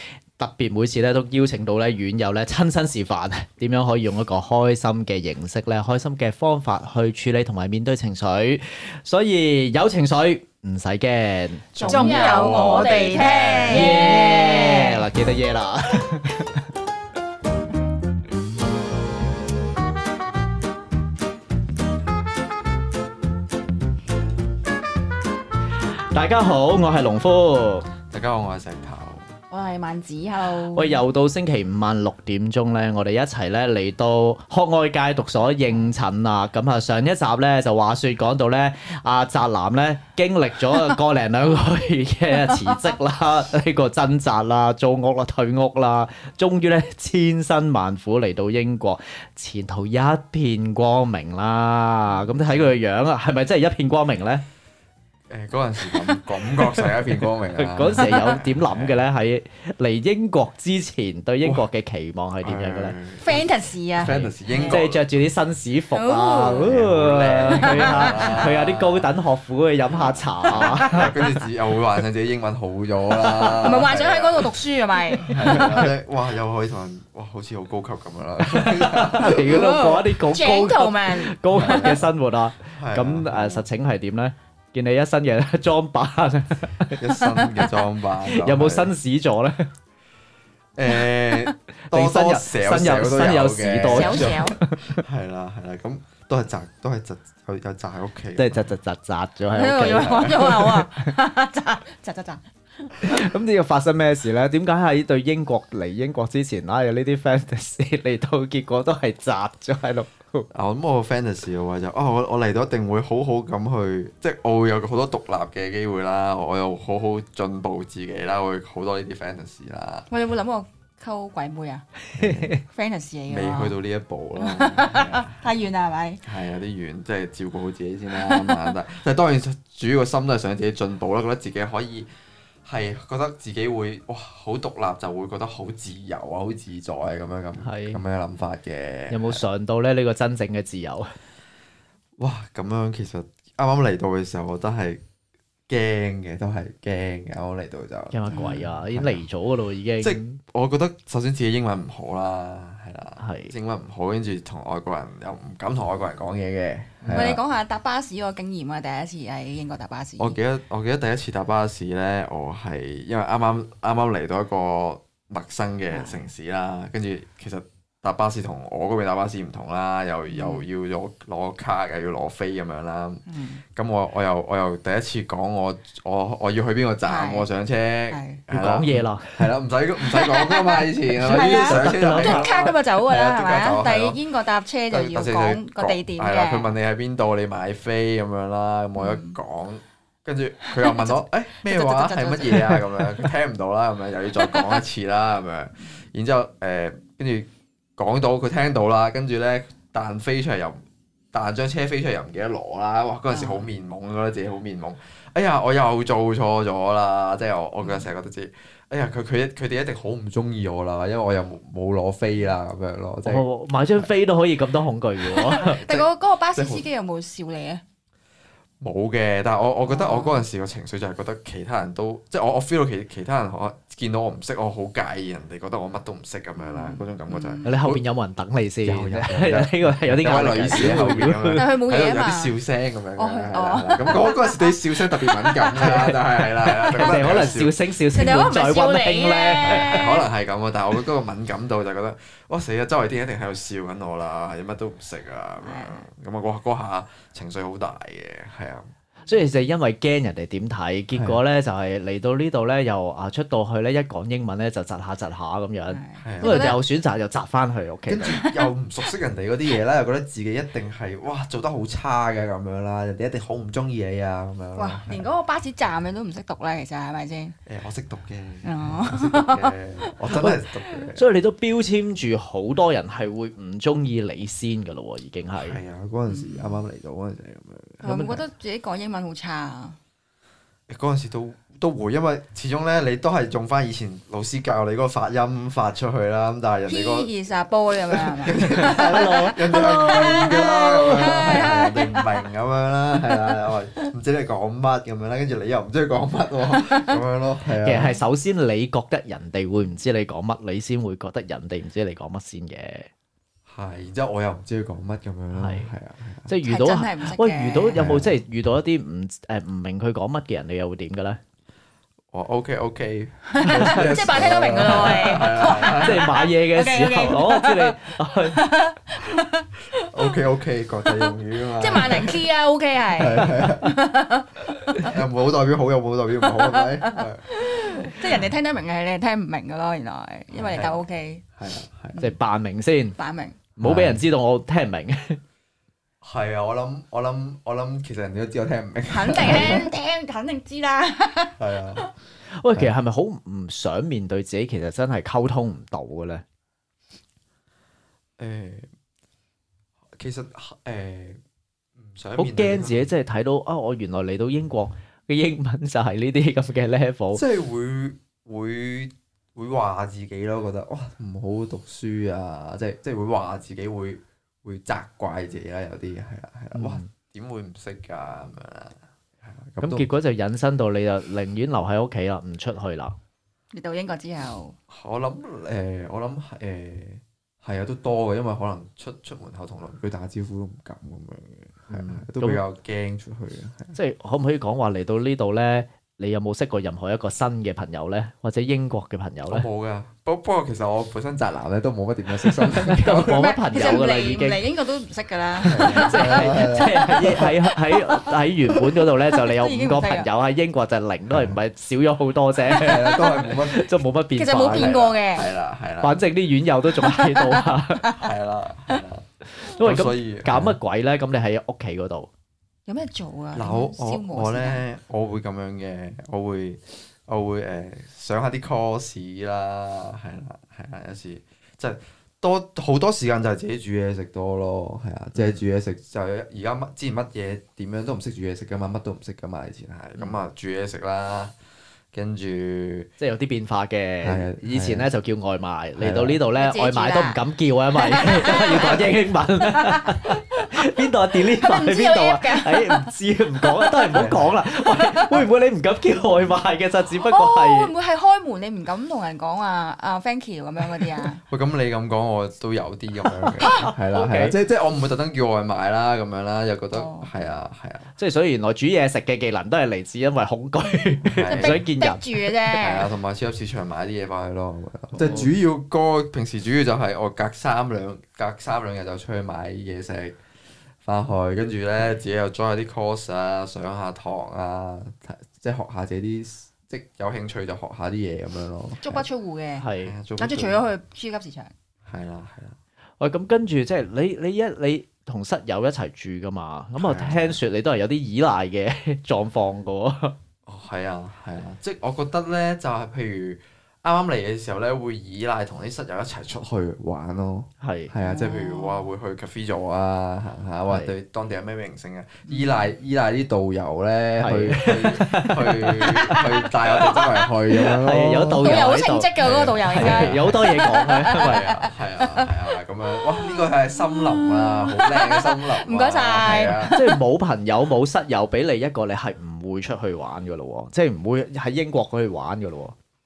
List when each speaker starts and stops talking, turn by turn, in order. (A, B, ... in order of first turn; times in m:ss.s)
0:00.4-0:12.3 A
0:11.7-0:14.0 B
0:11.8-0:15.1 C
0:13.6-0:16.6 A
0:26.1-0:27.9 A
0:28.1-0:29.3 B
0:29.5-0:31.0 C
0:30.5-0:54.4 A
0:42.4-0:42.8 C
0:52.2-0:52.7 B
0:55.3-0:59.1 B
0:57.6-1:02.9 A
0:57.9-0:58.4 C
1:02.4-1:05.0 B
1:03.2-1:04.8 C
1:04.6-1:11.0 A
1:05.9-1:06.7 C
1:06.6-1:09.1 B
1:07.5-1:08.5 C
1:09.9-1:14.6 B
1:10.5-1:11.1 C
1:13.2-1:13.8 A
1:13.6-1:15.6 C
1:15.3-1:19.7 B
1:15.3-1:15.8 A
1:18.4-1:27.7 A
1:19.3-1:22.0 C
1:21.5-1:22.1 B
1:22.8-1:23.6 B
1:26.9-1:28.9 B
1:28.2-1:29.7 A
1:30.8-1:38.7 B
1:31.8-1:35.0 A
1:33.8-1:34.6 C
1:38.4-1:40.8 A
1:39.5-1:43.1 C
1:39.9-1:40.8 B
1:43.0-1:50.5 A
1:50.5-2:00.1 B
2:00.1-2:01.8 C
2:02.1-2:02.6 B
2:02.2-2:02.6 A
2:02.7-2:03.8 C
2:03.3-2:05.5 B
2:04.4-2:06.2 C
2:06.2-2:12.1 B
2:08.1-2:08.7 C
2:12.6-2:19.4 B
2:17.6-2:18.0 A
2:19.1-2:21.1 A
2:22.2-2:25.0 B
2:25.7-2:29.2 B
2:28.1-2:30.4 A
2:28.3-2:28.7 C
2:30.0-2:37.4 B
2:33.2-2:33.5 A
2:37.0-2:37.4 A
2:37.1-2:40.4 C
2:40.2-3:04.2 B
2:45.9-2:46.3 C
2:50.3-2:50.6 C
2:53.3-2:53.6 C
2:57.0-2:57.5 C
2:58.1-2:58.4 C
2:58.5-2:59.5 A
3:00.0-3:06.7 C
3:01.2-3:02.5 A
3:04.9-3:34.1 B
3:09.0-3:09.4 C
3:10.6-3:13.3 C
3:14.4-3:14.8 C
3:23.3-3:23.7 C
3:27.8-3:28.1 C
3:33.2-3:35.8 A
3:35.2-3:37.8 C
3:35.5-3:36.8 B
3:38.8-3:48.0 B
3:39.9-3:40.4 C
3:46.6-3:47.7 C
3:47.6-3:51.6 A
3:48.8-3:57.8 B
3:51.5-3:52.5 C
3:53.2-3:55.9 C
3:55.8-3:56.2 A
3:56.8-3:57.5 C
3:56.9-4:00.1 A
3:58.0-4:00.3 C
3:59.6-4:08.9 B
4:05.6-4:06.0 C
4:09.2-4:18.4 A
4:11.1-4:11.4 B
4:15.9-4:16.8 C
4:16.2-4:16.6 B
4:18.1-4:25.3 B
4:18.3-4:18.7 C
4:24.7-4:27.5 C
4:27.7-4:31.2 B
4:28.6-4:30.1 C
4:30.3-4:30.6 A
4:31.1-4:35.8 A
4:35.5-4:38.4 B
4:36.3-4:36.8 C
4:38.0-4:40.0 C
4:40.9-4:47.3 B
4:46.8-4:52.4 C
4:48.1-4:58.2 B
4:48.8-4:49.9 A
4:56.7-4:57.2 C
4:57.8-5:03.1 A
5:03.7-5:06.5 B
5:05.5-5:05.9 A
5:06.5-5:11.4 A
5:06.6-5:08.0 C
5:07.9-5:08.4 B
5:12.3-5:16.3 B
5:13.5-5:20.4 C
5:15.6-5:18.7 A
5:20.1-5:22.4 B
5:21.1-5:25.2 C
5:23.1-5:23.9 B
5:25.0-5:28.5 B
5:26.4-5:31.4 C
5:30.5-5:31.0 B
5:31.6-5:32.2 B
5:32.2-5:33.2 A
5:33.2-5:33.6 C
5:33.8-5:35.4 A
5:33.8-5:34.2 B
5:36.2-5:39.8 B
5:39.1-5:42.1 C
5:41.6-5:42.0 B
5:42.6-5:46.4 A
5:48.4-5:48.9 B
5:50.2-5:51.4 B
5:52.0-5:53.1 B
5:52.4-5:57.4 A
5:57.3-6:10.1 B
6:06.7-6:07.1 A
6:09.8-6:13.1 A
6:13.7-6:14.7 C
6:14.9-6:24.0 B
6:21.9-6:22.6 A
6:23.9-6:29.7 A
6:29.5-6:33.5 B
6:32.8-6:34.6 A
6:33.3-6:38.1 C
6:35.6-6:45.0 A
6:35.6-6:37.5 B
6:39.3-6:40.3 C
6:41.3-6:41.6 B
6:42.7-6:43.2 C
6:42.7-6:43.8 B
6:44.4-6:45.5 C
6:44.7-6:46.2 B
6:46.0-6:48.1 A
6:47.0-6:48.3 C
6:48.1-6:50.8 B
6:49.6-6:52.3 A
6:52.8-6:54.8 C
6:53.5-7:11.5 B
7:05.3-7:05.6 A
7:12.1-7:13.1 B
7:13.2-7:27.9 A
7:14.2-7:15.1 B
7:16.0-7:16.4 B
7:16.5-7:17.4 C
7:17.9-7:20.7 C
7:21.5-7:23.0 C
7:24.1-7:24.6 B
7:24.8-7:25.4 C
7:27.1-7:31.4 C
7:31.5-7:38.1 B
7:33.5-7:34.5 A
7:33.6-7:33.9 C
7:36.9-7:37.3 C
7:38.2-7:42.8 A
7:41.2-7:41.9 B
7:41.4-7:43.1 C
7:42.8-7:50.4 B
7:45.1-7:45.5 A
7:51.0-7:59.2 B
7:59.0-8:01.7 C
7:59.8-8:00.1 A
8:00.0-8:00.8 B
8:02.0-8:02.8 B
8:03.2-8:10.4 A
8:07.0-8:07.6 B
8:10.6-8:28.8 B
8:17.8-8:18.1 A
8:18.2-8:19.0 C
8:20.9-8:21.1 A
8:22.5-8:22.8 C
8:24.4-8:26.4 A
8:28.0-8:29.3 A
8:28.6-8:32.5 C
8:29.4-8:30.8 B
8:29.9-8:31.6 A
8:31.3-8:36.9 B
8:33.4-8:37.2 C
8:36.9-8:43.0 A